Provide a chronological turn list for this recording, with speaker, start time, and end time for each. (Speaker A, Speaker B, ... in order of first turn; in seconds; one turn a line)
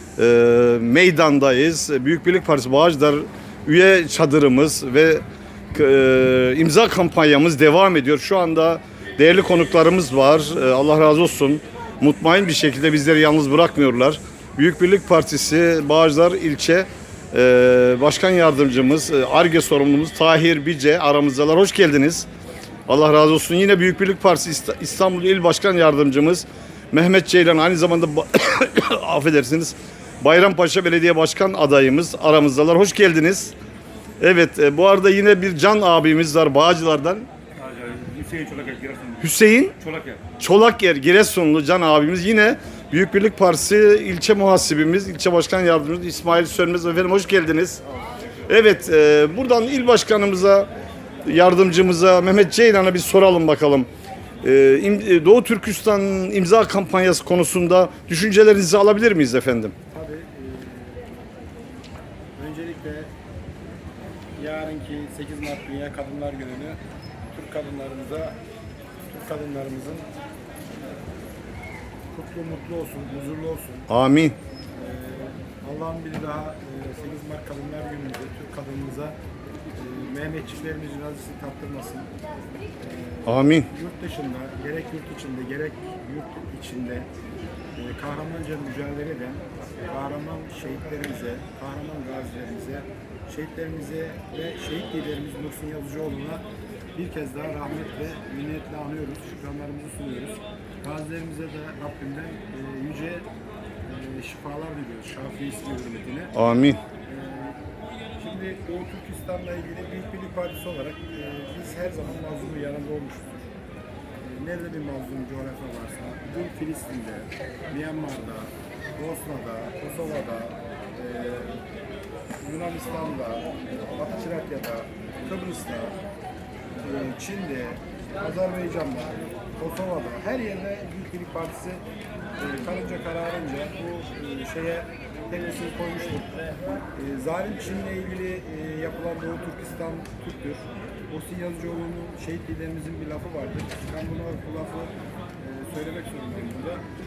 Speaker A: 0.2-22.3
Speaker A: 22.9-33.5
Speaker A: 34.2-37.3
Speaker B: 37.6-39.2
Speaker A: 39.2-39.8
Speaker B: 39.8-40.2
Speaker A: 40.4-47.8
Speaker A: 48.5-50.7
Speaker A: 51.2-53.9
Speaker A: 54.4-59.7
Speaker C: 59.9-61.1
Speaker C: 62.4-63.1
Speaker C: 64.4-66.8
Speaker C: 67.3-68.4
Speaker C: 69.1-70.1
Speaker C: 72.1-73.9
Speaker A: 73.9-74.4
Speaker C: 74.7-79.2
Speaker C: 79.7-82.1
Speaker C: 82.8-87.1
Speaker A: 83.2-83.7
Speaker C: 87.8-96.4
Speaker C: 96.9-103.2
Speaker C: 103.8-106.3
Speaker A: 106.3-106.8
Speaker C: 107.0-107.5
Speaker C: 108.2-113.4
Speaker C: 114.2-121.6
Speaker C: 122.4-126.0
Speaker C: 126.8-131.8
Speaker C: 132.4-136.3
Speaker C: 136.9-146.8